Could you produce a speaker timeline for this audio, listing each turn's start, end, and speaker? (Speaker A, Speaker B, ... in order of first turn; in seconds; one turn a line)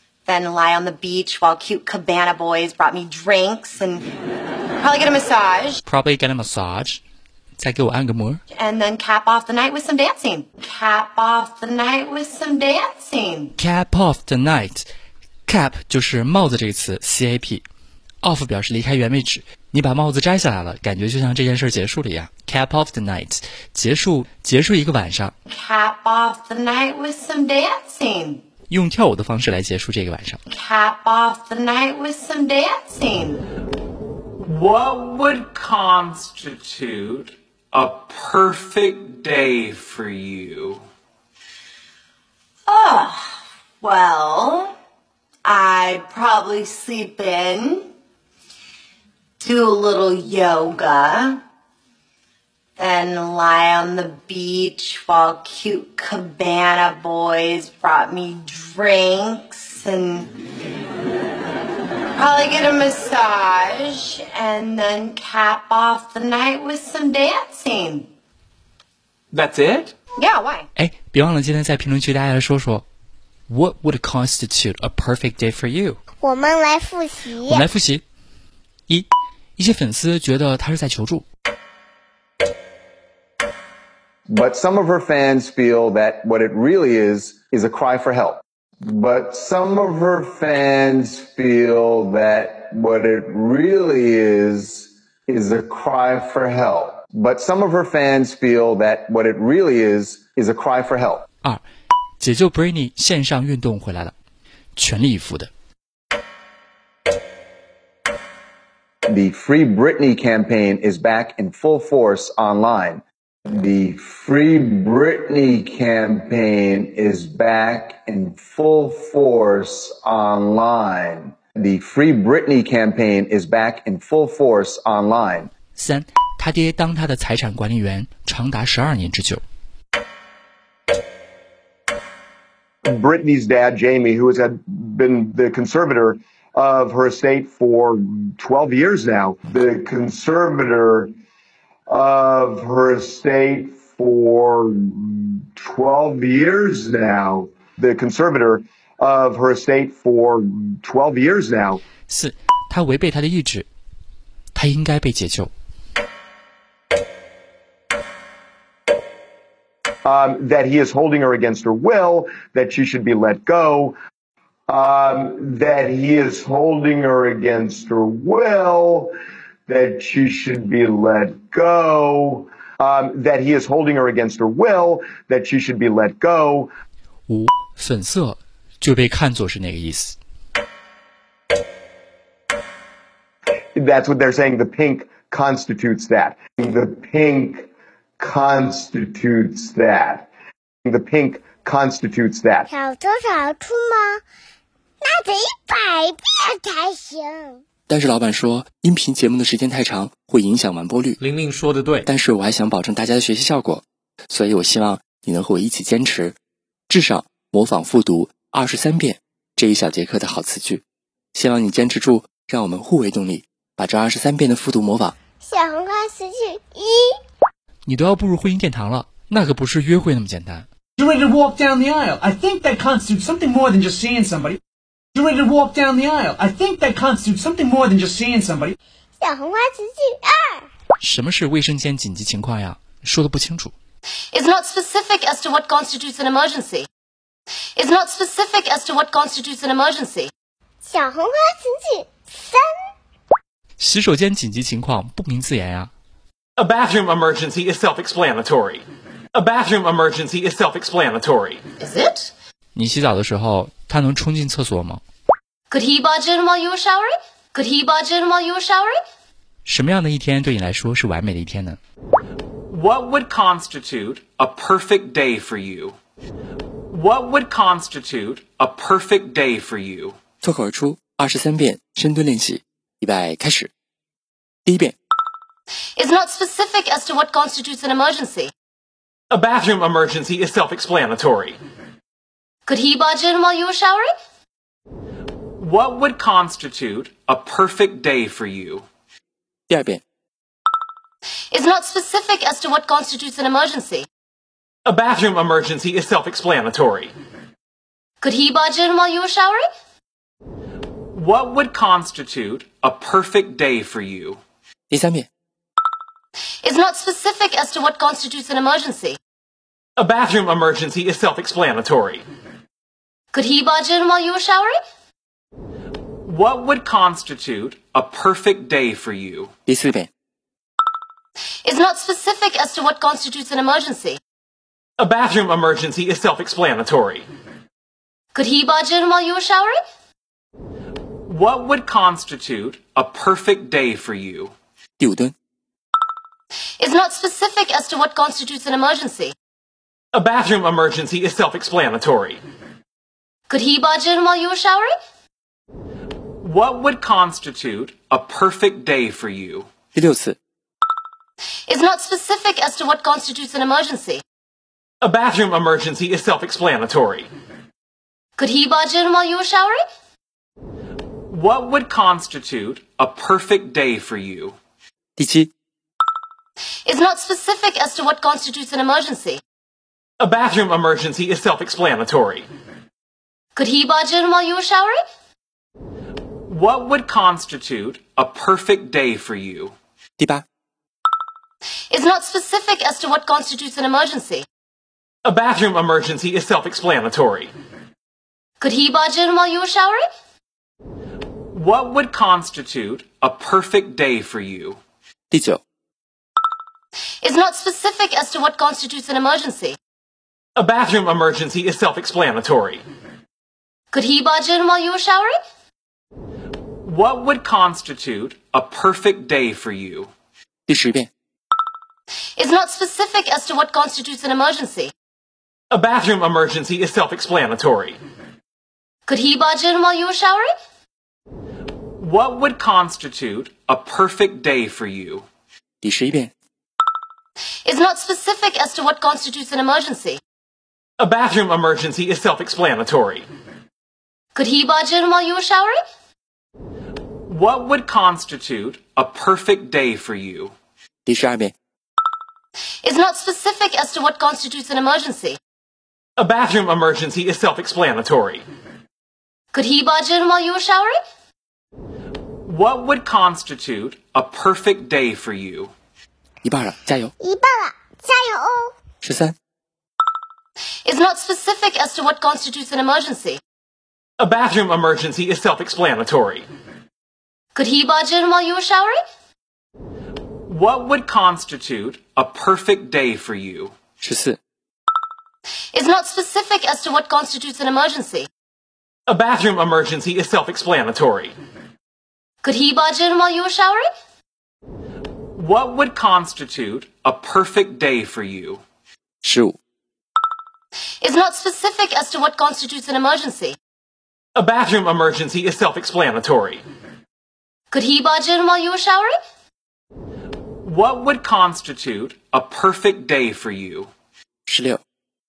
Speaker A: 0.2-4.1
Speaker A: 4.8-5.8
Speaker B: 5.8-7.0
Speaker B: 7.6-8.4
Speaker A: 8.5-13.6
Speaker B: 13.6-14.8
Speaker B: 15.5-17.6
Speaker B: 18.2-25.3
Speaker A: 25.4-28.4
Speaker B: 28.7-30.4
Speaker A: 30.5-33.4
Speaker C: 34.4-40.8
Speaker A: 42.6-44.7
Speaker A: 45.4-47.9
Speaker A: 49.4-51.4
Speaker A: 52.8-60.3
Speaker A: 62.1-68.1
Speaker C: 69.3-69.9
Speaker A: 70.2-70.7
Speaker B: 70.8-72.8
Speaker B: 73.5-76.0
Speaker D: 76.2-77.7
Speaker B: 77.4-78.0
Speaker B: 78.9-81.2
Speaker E: 84.3-101.2
Speaker B: 102.2-104.1
Speaker B: 104.8-105.5
Speaker E: 109.1-125.5
Speaker B: 125.7-129.4
Speaker F: 132.8-141.1
Speaker F: 141.9-151.8
Speaker B: 152.1-153.7
Speaker B: 154.5-155.5
Speaker F: 160.0-164.0
Speaker F: 164.7-169.1
Speaker F: 169.7-176.7
Speaker B: 177.3-180.2
Speaker F: 183.8-187.7
Speaker F: 188.2-190.3
Speaker F: 190.8-192.7
Speaker D: 192.7-194.2
Speaker D: 195.0-197.6
Speaker B: 197.9-201.2
Speaker B: 202.0-206.4
Speaker B: 206.9-210.8
Speaker B: 211.3-215.1
Speaker D: 215.4-217.2
Speaker B: 217.8-220.7
Speaker G: 221.0-224.6
Speaker G: 225.1-228.8
Speaker D: 229.2-230.7
Speaker B: 231.0-233.7
Speaker H: 234.3-236.9
Speaker H: 237.8-240.3
Speaker D: 240.8-242.7
Speaker B: 243.8-245.9
Speaker C: 246.6-251.7
Speaker H: 251.8-252.3
Speaker B: 252.7-255.0
Speaker H: 255.7-259.0
Speaker B: 259.6-261.8
Speaker C: 262.7-265.9
Speaker C: 266.9-270.2
Speaker B: 270.4-273.7
Speaker B: 274.6-274.9
Speaker H: 276.0-278.5
Speaker C: 279.3-281.6
Speaker H: 282.7-284.1
Speaker C: 285.6-288.8
Speaker B: 289.7-290.0
Speaker H: 291.5-294.1
Speaker C: 294.9-297.1
Speaker H: 298.2-299.6
Speaker C: 301.1-304.4
Speaker B: 304.9-305.3
Speaker H: 306.6-309.2
Speaker C: 310.0-312.2
Speaker H: 313.3-314.8
Speaker C: 316.2-319.5
Speaker B: 319.7-320.1
Speaker H: 321.6-324.2
Speaker C: 325.0-327.3
Speaker H: 328.3-329.8
Speaker C: 331.3-334.5
Speaker B: 335.0-335.3
Speaker H: 336.8-339.3
Speaker C: 340.1-342.4
Speaker H: 343.5-344.9
Speaker C: 346.4-349.7
Speaker B: 349.9-350.4
Speaker H: 351.7-354.2
Speaker C: 355.0-357.3
Speaker H: 358.4-359.8
Speaker C: 361.3-364.6
Speaker B: 365.2-365.5
Speaker H: 366.9-369.4
Speaker C: 370.2-372.5
Speaker H: 373.6-375.0
Speaker C: 376.5-379.7
Speaker B: 380.2-380.4
Speaker H: 381.9-384.4
Speaker C: 385.2-387.5
Speaker H: 388.6-390.0
Speaker C: 391.5-394.8
Speaker B: 395.3-395.6
Speaker H: 397.2-399.8
Speaker C: 400.6-402.8
Speaker H: 403.9-405.3
Speaker C: 406.8-410.1
Speaker B: 410.7-411.1
Speaker H: 412.4-414.9
Speaker C: 415.7-418.0
Speaker H: 419.1-420.5
Speaker C: 422.0-425.2
Speaker B: 425.8-426.3
Speaker H: 427.6-430.2
Speaker C: 431.0-433.3
Speaker H: 434.3-435.8
Speaker C: 437.3-440.5
Speaker B: 441.1-441.5
Speaker H: 442.8-445.4
Speaker C: 446.2-448.4
Speaker H: 449.5-451.0
Speaker C: 452.4-455.7
Speaker B: 456.4-457.1
Speaker D: 457.2-458.7
Speaker B: 459.0-459.3
Speaker H: 460.9-463.4
Speaker C: 464.2-466.5
Speaker H: 467.5-469.0
Speaker C: 470.5-473.7
Speaker B: 474.0-474.4
Speaker H: 475.7-478.3
Speaker C: 479.1-481.4
Speaker H: 482.4-483.9
Speaker C: 485.4-488.6
Speaker B: 489.2-489.6
Speaker H: 491.0-493.6
Speaker C: 494.4-496.6
Speaker H: 497.7-499.1
Speaker C: 500.6-503.9
Speaker B: 504.5-504.8